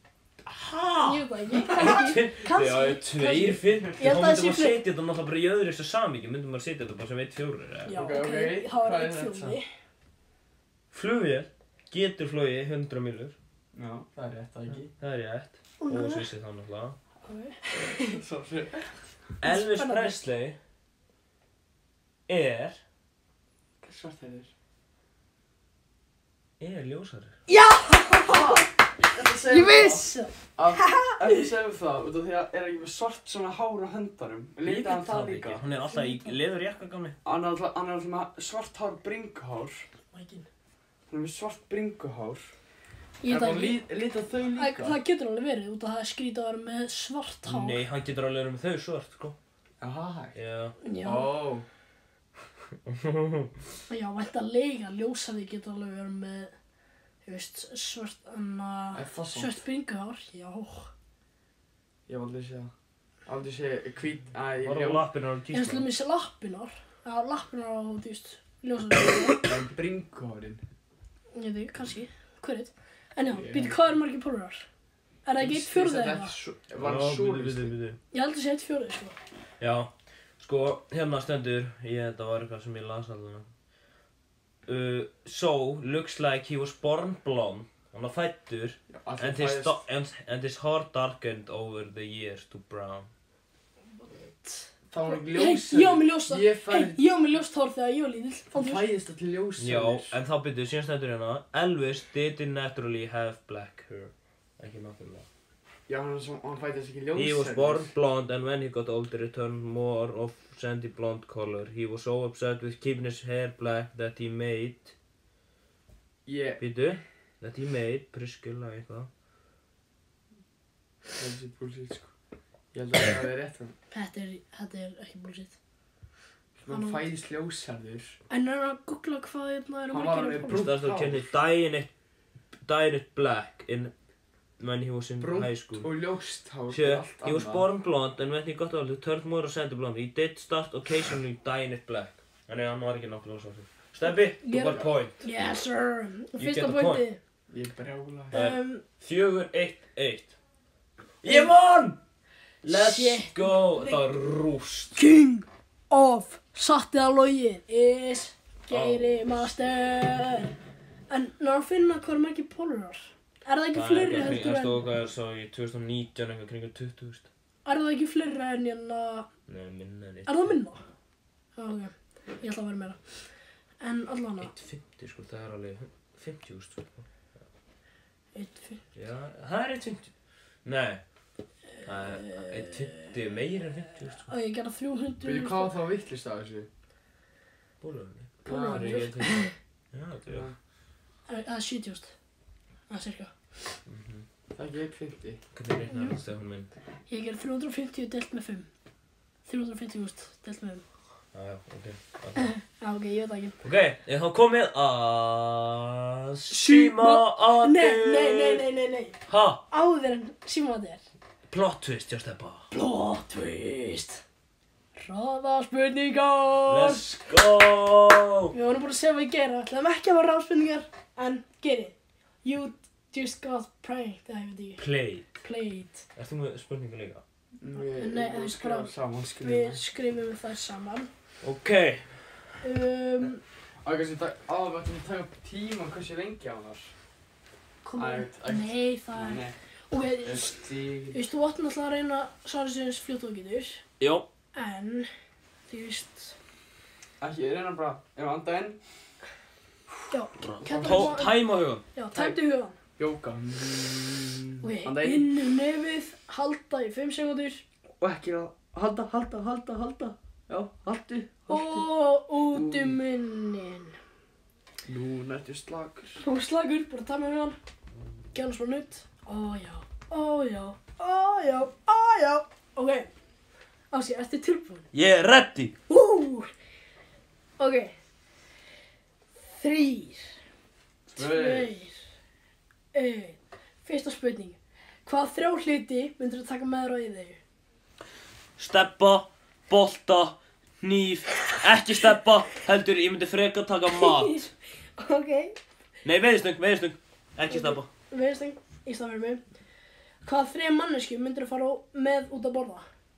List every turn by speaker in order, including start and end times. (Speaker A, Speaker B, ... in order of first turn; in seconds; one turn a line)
Speaker A: 0.5-8.0
Speaker B: 1.0-4.7
Speaker B: 7.8-9.7
Speaker C: 7.9-9.6
Speaker A: 10.9-13.3
Speaker C: 13.7-14.9
Speaker A: 15.0-17.0
Speaker B: 15.8-16.3
Speaker B: 17.2-18.2
Speaker C: 17.9-18.9
Speaker A: 19.4-20.6
Speaker B: 19.4-20.1
Speaker A: 22.3-22.8
Speaker C: 23.8-24.5
Speaker A: 26.6-27.3
Speaker B: 27.5-28.7
Speaker C: 28.2-35.6
Speaker B: 29.4-31.4
Speaker A: 34.6-37.2
Speaker B: 35.9-36.3
Speaker C: 37.2-39.9
Speaker B: 40.1-40.5
Speaker C: 41.1-42.5
Speaker B: 43.2-43.8
Speaker C: 43.2-45.0
Speaker B: 44.5-47.8
Speaker A: 47.5-49.4
Speaker C: 49.8-50.3
Speaker A: 50.3-50.8
Speaker B: 50.8-51.3
Speaker C: 51.0-51.6
Speaker A: 52.9-53.5
Speaker B: 53.9-56.5
Speaker B: 57.2-60.9
Speaker C: 58.9-59.6
Speaker C: 62.1-62.7
Speaker C: 63.2-65.0
Speaker A: 64.6-65.9
Speaker B: 65.5-69.5
Speaker C: 69.4-70.6
Speaker B: 71.3-74.7
Speaker C: 73.3-73.8
Speaker B: 75.2-76.3
Speaker C: 75.4-77.7
Speaker A: 76.8-78.0
Speaker B: 78.1-79.2
Speaker A: 79.6-83.5
Speaker A: 84.7-93.1
Speaker C: 88.9-89.8
Speaker B: 94.0-98.8
Speaker C: 94.9-97.0
Speaker C: 98.5-100.2
Speaker A: 99.6-105.2
Speaker C: 105.9-107.9
Speaker A: 107.1-114.9
Speaker C: 116.2-116.6
Speaker A: 116.6-119.1
Speaker C: 121.2-122.1
Speaker C: 122.7-123.7
Speaker B: 123.9-125.5
Speaker C: 126.6-128.2
Speaker B: 126.7-127.1
Speaker B: 128.3-130.7
Speaker C: 129.9-131.3
Speaker A: 130.5-131.9
Speaker A: 132.6-133.9
Speaker A: 134.6-135.9
Speaker C: 135.2-137.7
Speaker A: 136.7-145.2
Speaker B: 144.4-147.2
Speaker A: 146.4-147.0
Speaker C: 147.5-148.4
Speaker B: 148.3-148.8
Speaker A: 148.3-150.3
Speaker A: 151.2-152.0
Speaker B: 151.2-151.5
Speaker A: 152.6-155.0
Speaker B: 152.7-154.0
Speaker B: 154.9-160.5
Speaker A: 158.7-159.5
Speaker B: 161.1-164.8
Speaker A: 163.7-167.3
Speaker B: 167.6-169.3
Speaker A: 169.5-170.6
Speaker B: 170.2-170.8
Speaker B: 171.6-173.0
Speaker B: 173.8-174.5
Speaker A: 174.4-177.1
Speaker B: 178.3-178.8
Speaker A: 178.9-180.1
Speaker A: 180.6-181.0
Speaker B: 181.8-183.1
Speaker A: 181.8-184.3
Speaker B: 184.2-185.7
Speaker C: 185.2-186.7
Speaker A: 187.8-190.5
Speaker B: 188.4-189.5
Speaker C: 188.4-189.1
Speaker C: 190.3-190.5
Speaker B: 191.3-192.1
Speaker B: 192.9-193.3
Speaker A: 193.8-194.2
Speaker C: 194.5-195.4
Speaker A: 195.5-196.7
Speaker B: 195.9-196.2
Speaker B: 197.1-198.7
Speaker B: 199.5-200.8
Speaker A: 201.3-202.5
Speaker B: 202.4-203.6
Speaker A: 203.6-208.6
Speaker B: 206.5-209.2
Speaker A: 209.3-209.6
Speaker B: 209.7-211.0
Speaker A: 211.5-212.7
Speaker B: 212.7-214.2
Speaker B: 214.9-217.0
Speaker A: 216.7-218.5
Speaker B: 218.5-224.8
Speaker A: 224.8-225.4
Speaker B: 225.4-226.0
Speaker A: 226.2-227.2
Speaker C: 227.6-229.8
Speaker B: 227.8-231.1
Speaker A: 231.4-232.5
Speaker B: 232.6-233.4
Speaker C: 233.8-236.9
Speaker B: 237.8-240.6
Speaker C: 238.0-239.5
Speaker C: 240.2-241.2
Speaker B: 241.1-243.8
Speaker A: 244.0-244.3
Speaker B: 244.5-245.1
Speaker B: 245.7-246.3
Speaker C: 247.2-248.8
Speaker B: 250.1-251.4
Speaker A: 250.4-251.8
Speaker C: 250.7-251.2
Speaker B: 251.9-252.8
Speaker C: 253.0-255.4
Speaker B: 254.6-257.6
Speaker C: 258.0-261.9
Speaker B: 261.5-263.9
Speaker C: 262.5-263.0
Speaker C: 264.9-266.2
Speaker B: 266.2-267.6
Speaker B: 268.3-273.1
Speaker B: 273.9-274.9
Speaker A: 274.9-275.7
Speaker B: 275.9-276.5
Speaker B: 277.6-277.9
Speaker B: 279.4-280.3
Speaker C: 281.1-281.7
Speaker B: 281.1-282.0
Speaker B: 282.9-287.4
Speaker A: 288.6-294.4
Speaker B: 293.9-295.6
Speaker A: 296.0-297.9
Speaker B: 297.5-299.4
Speaker B: 300.2-302.9